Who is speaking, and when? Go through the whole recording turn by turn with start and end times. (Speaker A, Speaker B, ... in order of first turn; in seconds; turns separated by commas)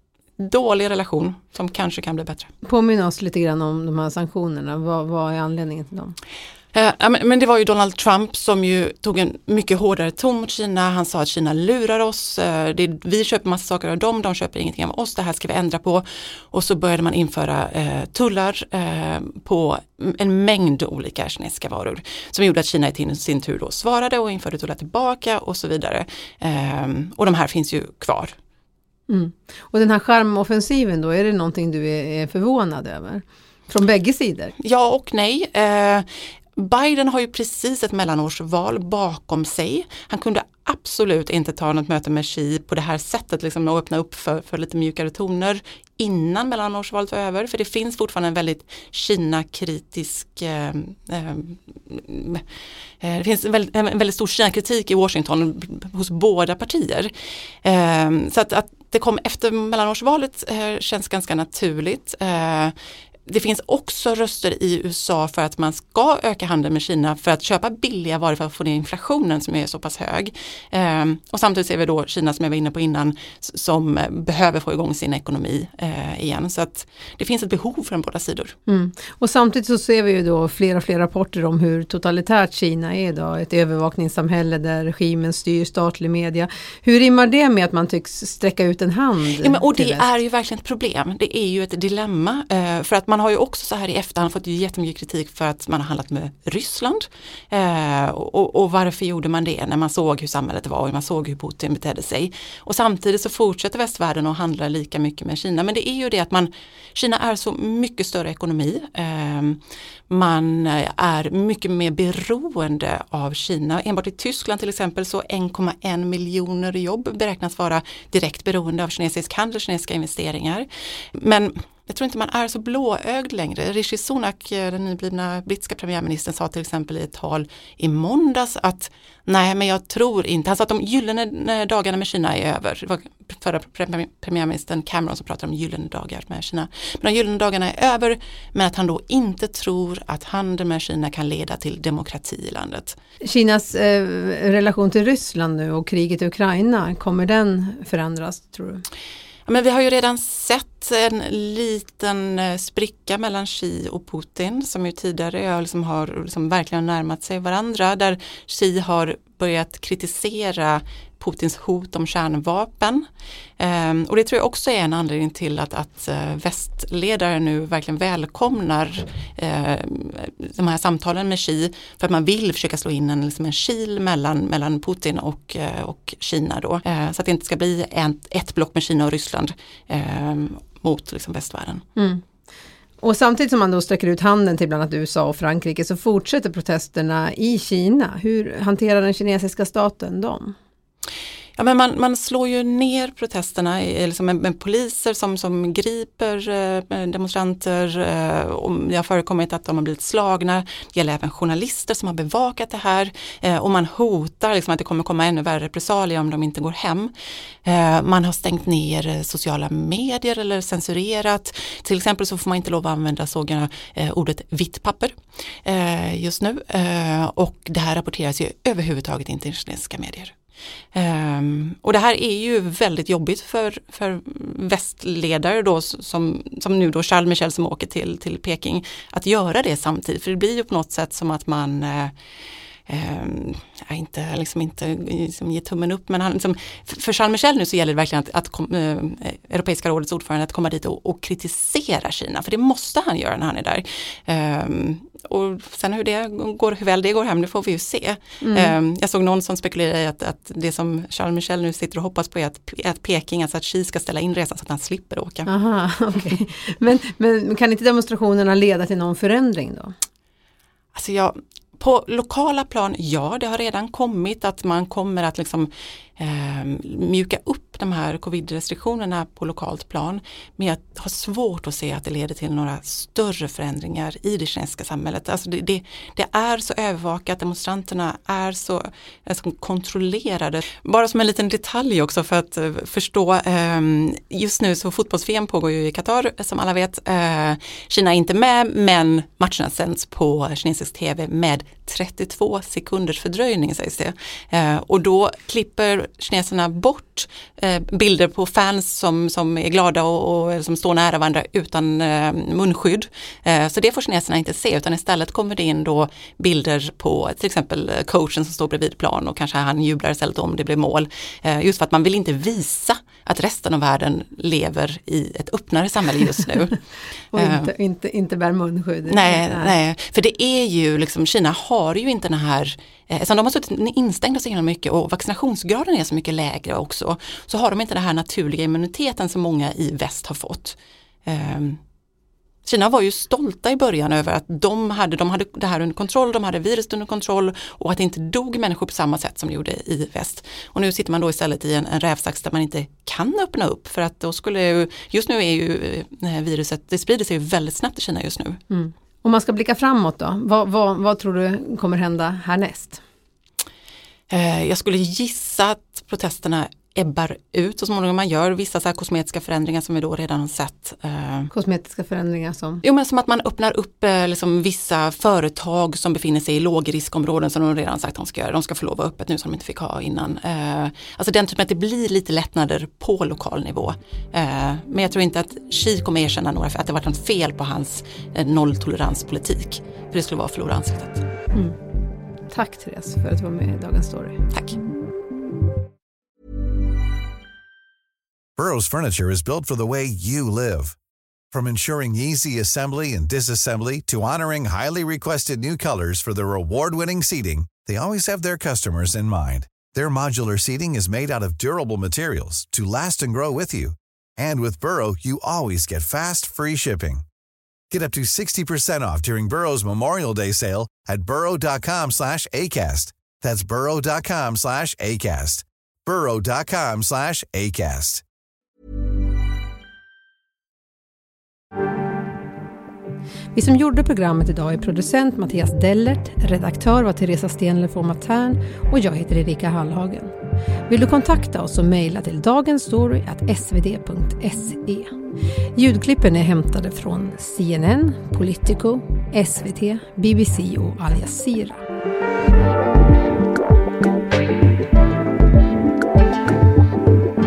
Speaker A: 0.4-2.5, Speaker B: 2.6-6.2, Speaker A: 6.7-28.4, Speaker B: 29.1-34.5, Speaker A: 34.6-52.4, Speaker A: 53.0-57.1, Speaker A: 57.6-62.7, Speaker A: 63.3-78.5, Speaker B: 78.7-90.1, Speaker A: 89.4-142.9, Speaker B: 143.2-148.8, Speaker A: 149.5-163.0, Speaker A: 163.6-181.8, Speaker B: 181.9-182.2, Speaker B: 183.0-190.5, Speaker A: 191.6-207.1, Speaker A: 207.6-215.1, Speaker A: 215.6-220.3, Speaker A: 220.9-232.1, Speaker A: 232.9-255.5, Speaker B: 248.4-248.7, Speaker B: 255.4-259.9, Speaker A: 260.9-316.8, Speaker B: 317.3-319.7, Speaker A: 317.3-317.7, Speaker A: 319.1-331.8, Speaker A: 332.6-348.6, Speaker B: 348.7-353.0, Speaker A: 354.3-361.5, Speaker B: 361.5-362.8, Speaker A: 362.8-381.2, Speaker B: 382.5-384.4, Speaker A: 384.5-384.8, Speaker C: 388.6-390.9, Speaker C: 391.5-407.2, Speaker C: 407.9-418.2, Speaker B: 423.5-430.3, Speaker B: 430.9-435.1, Speaker B: 435.7-441.8